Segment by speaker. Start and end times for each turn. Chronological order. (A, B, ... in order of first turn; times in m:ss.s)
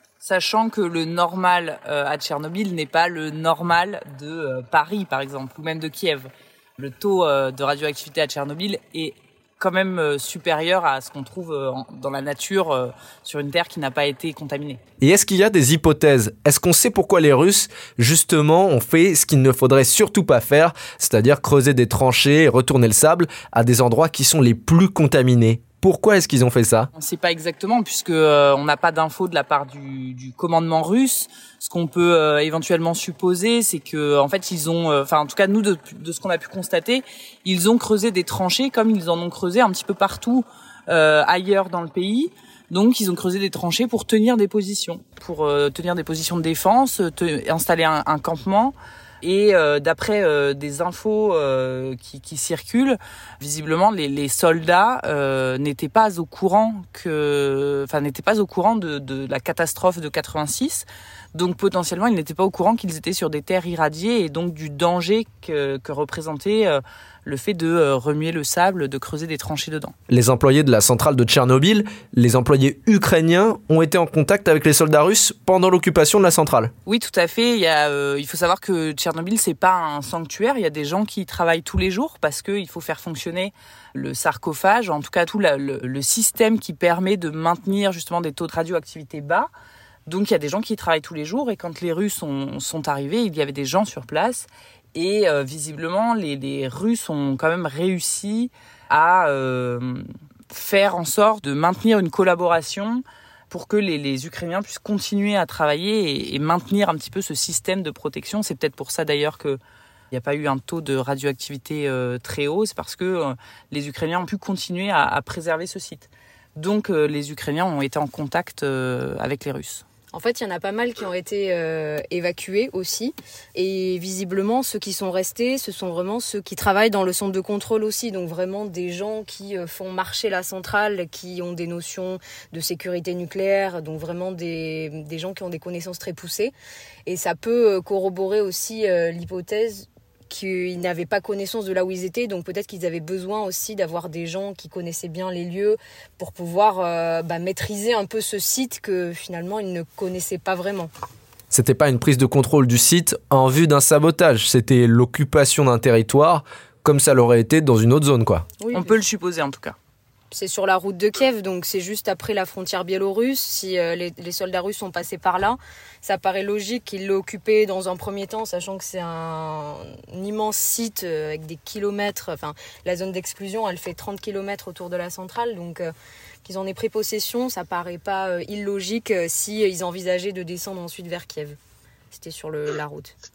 0:00.2-0:14.8 A
0:15.0-0:26.9 B
0:26.9-1:09.9 A
1:10.1-1:16.7 B
1:16.9-1:29.5 A
1:30.1-1:49.6 A
1:50.1-1:59.8 A
2:00.1-2:16.5 C
2:17.1-2:30.9 C
2:31.5-2:38.4 B
2:38.6-2:38.9 C
2:38.7-2:39.8 A
2:40.3-2:55.9 C
2:56.4-3:01.6 C
3:02.1-3:03.1 C